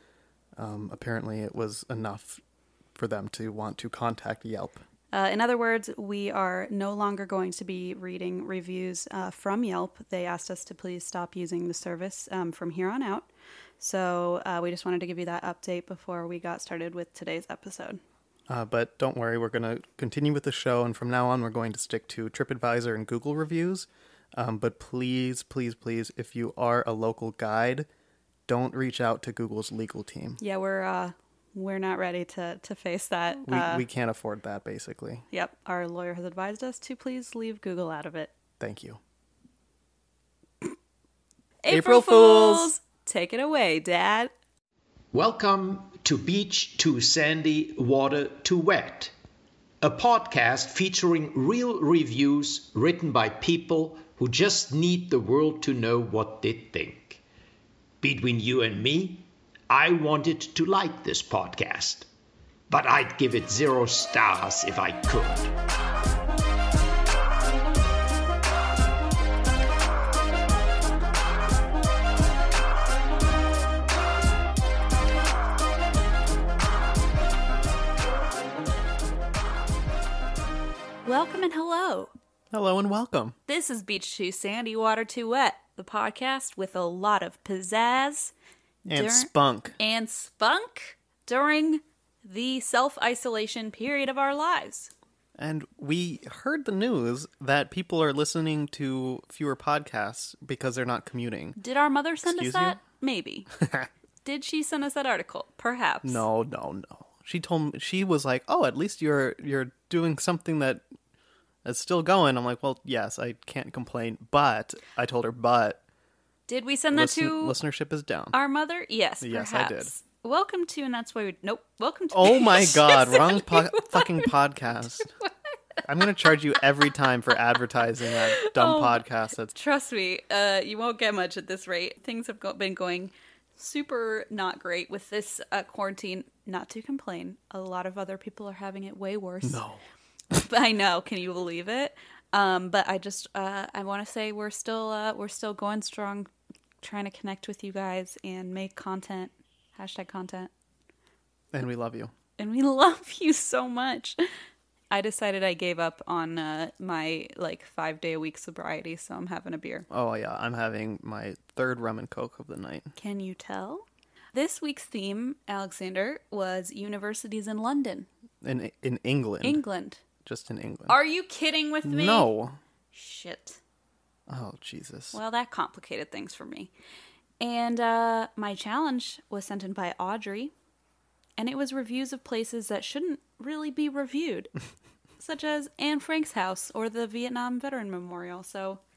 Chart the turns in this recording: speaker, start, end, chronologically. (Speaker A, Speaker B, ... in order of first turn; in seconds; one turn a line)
Speaker A: 0.6-2.4
Speaker A: 2.9-4.8
Speaker B: 5.1-18.0
Speaker A: 18.5-27.9
Speaker A: 28.5-30.4
Speaker B: 30.4-33.8
Speaker A: 33.4-35.2
Speaker B: 35.3-38.3
Speaker A: 38.6-39.0
Speaker B: 41.6-44.3
Speaker A: 41.7-42.7
Speaker C: 45.1-49.1
Speaker C: 49.8-57.2
Speaker C: 58.0-62.1
Speaker C: 62.7-65.5
Speaker B: 81.0-82.1
Speaker A: 82.5-83.3
Speaker B: 83.5-88.3
Speaker A: 88.8-89.8
Speaker B: 88.9-94.9
Speaker A: 95.4-101.6
Speaker B: 101.5-103.5
Speaker A: 102.2-102.8
Speaker A: 103.6-103.9
Speaker B: 104.2-106.2
Speaker A: 106.0-110.8
Speaker A: 111.6-115.8
Speaker B: 116.5-117.6
Speaker A: 116.9-118.3
Speaker B: 118.3-124.3
Speaker A: 119.2-119.9
Speaker A: 122.1-125.1
Speaker B: 124.9-126.6
Speaker A: 125.8-129.5
Speaker B: 128.1-139.6
Speaker A: 139.4-139.8
Speaker B: 140.3-146.3
Speaker B: 146.8-150.5
Speaker A: 151.5-152.1
Speaker B: 152.4-154.2
Speaker B: 154.9-159.8
Speaker A: 159.9-162.9
Speaker B: 162.9-168.1
Speaker A: 168.4-169.6
Speaker B: 169.4-170.0
Speaker A: 170.2-170.9
Speaker B: 170.9-172.3
Speaker A: 171.8-172.6
Speaker B: 172.9-173.6
Speaker A: 174.3-175.2
Speaker B: 175.1-176.7
Speaker B: 177.4-180.5
Speaker B: 181.4-184.5
Speaker B: 185.2-188.8